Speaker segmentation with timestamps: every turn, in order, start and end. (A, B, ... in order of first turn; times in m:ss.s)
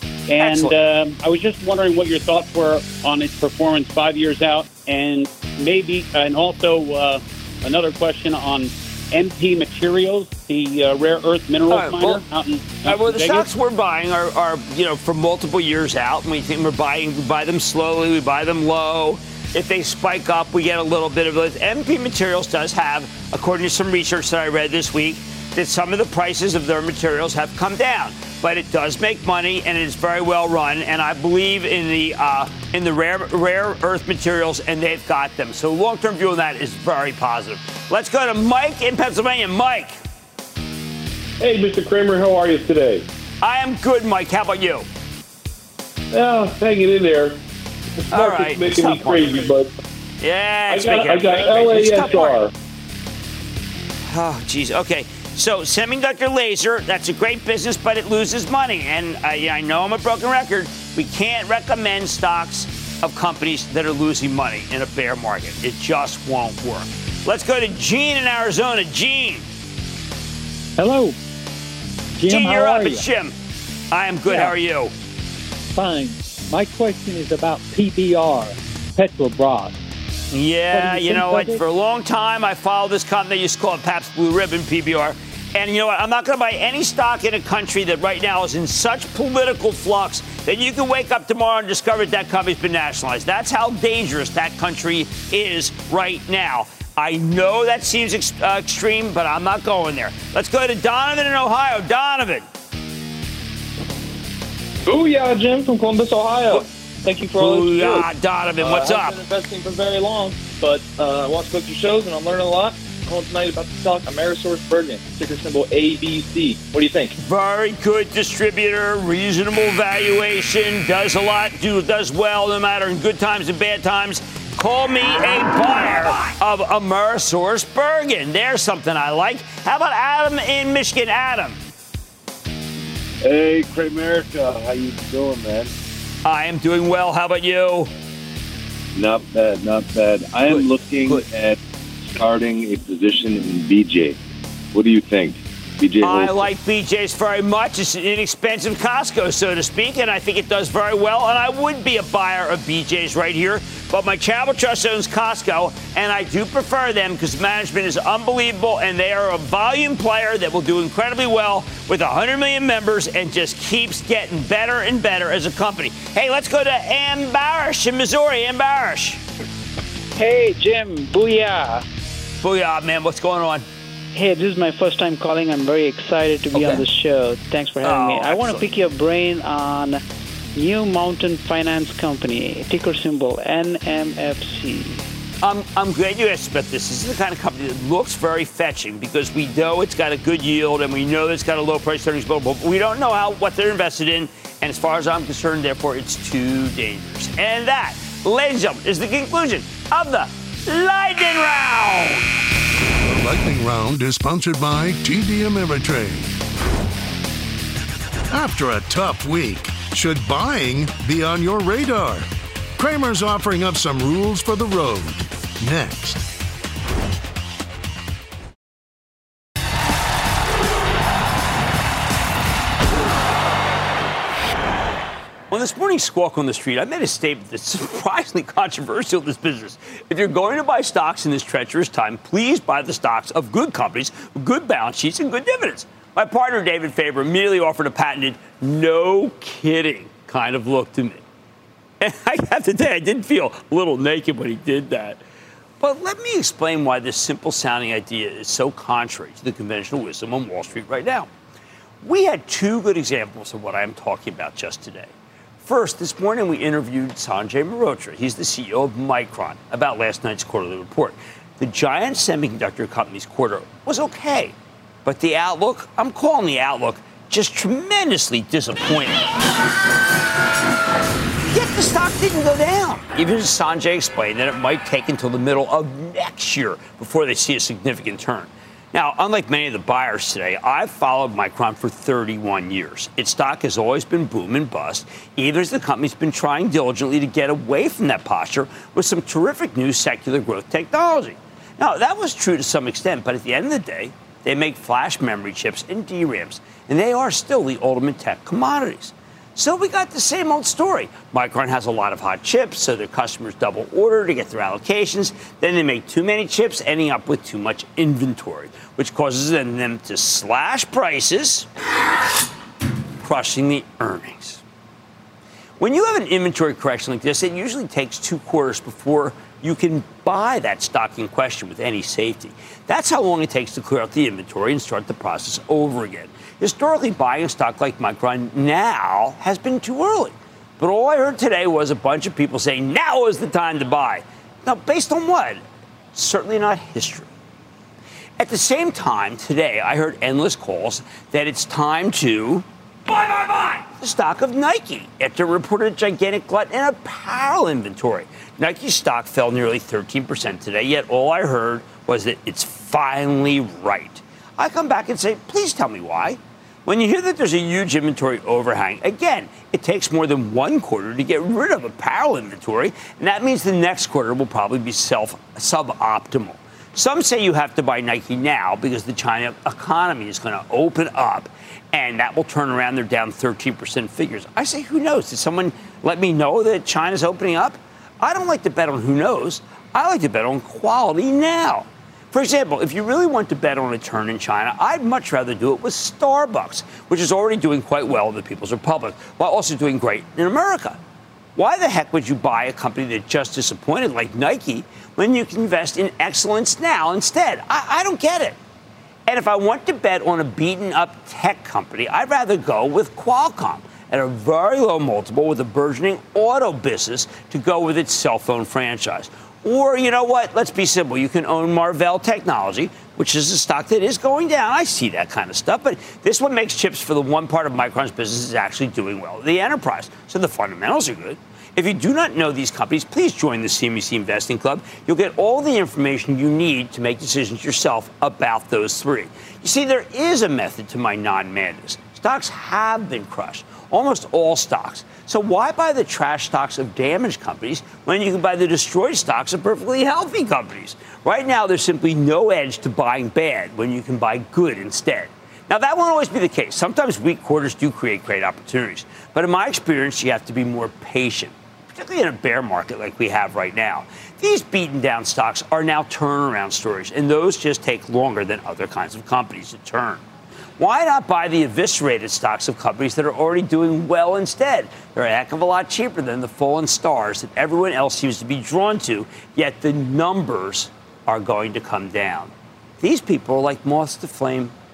0:00.3-0:13.5 A
0:00.4-0:00.7 B
0:11.7-0:12.2 B
0:12.8-0:40.0 B
0:41.4-0:43.0 C
0:43.4-0:44.8 B
0:46.1-0:47.3 C
0:48.1-0:49.6 B
0:48.4-0:49.5 C
0:50.2-0:52.5 B
0:51.1-0:52.1 C
0:51.4-0:52.5 D
0:54.1-1:09.4 B
1:10.8-1:11.2 E
1:12.2-1:13.0 E
1:12.2-1:13.3 B
1:13.9-1:14.9 B
1:14.3-1:14.5 E
1:15.7-1:19.8 E
1:20.3-1:42.4 B
1:20.7-1:21.6 E
1:44.8-1:48.0 D
1:47.4-1:49.2 B
1:48.6-1:57.1 D
1:57.2-2:11.6 B
2:13.2-2:15.7 F
2:16.2-2:17.9 B
2:18.9-2:24.2 F
2:20.5-2:21.1 B
2:24.7-2:26.5 F
2:26.0-2:49.2 B
2:50.2-2:51.8 G
2:52.4-2:53.6 B
2:54.1-3:00.0 G
2:56.5-2:56.8 B
2:57.8-2:58.7 B
3:00.6-3:05.0 G
3:05.4-3:22.3 B
3:23.0-3:26.4 H
3:28.3-3:36.3 H
3:45.5-4:01.2 B
4:02.0-4:05.2 B
4:05.8-4:11.3 B
4:12.0-4:24.5 B
4:25.0-4:29.3 B
4:31.5-5:11.7 B
5:13.2-5:14.6 B
5:15.8-5:35.6 B
5:36.1-5:37.3 B
5:38.4-6:31.0 B
6:31.6-6:38.6 B
6:39.3-7:40.2 B
7:40.8-7:54.7 B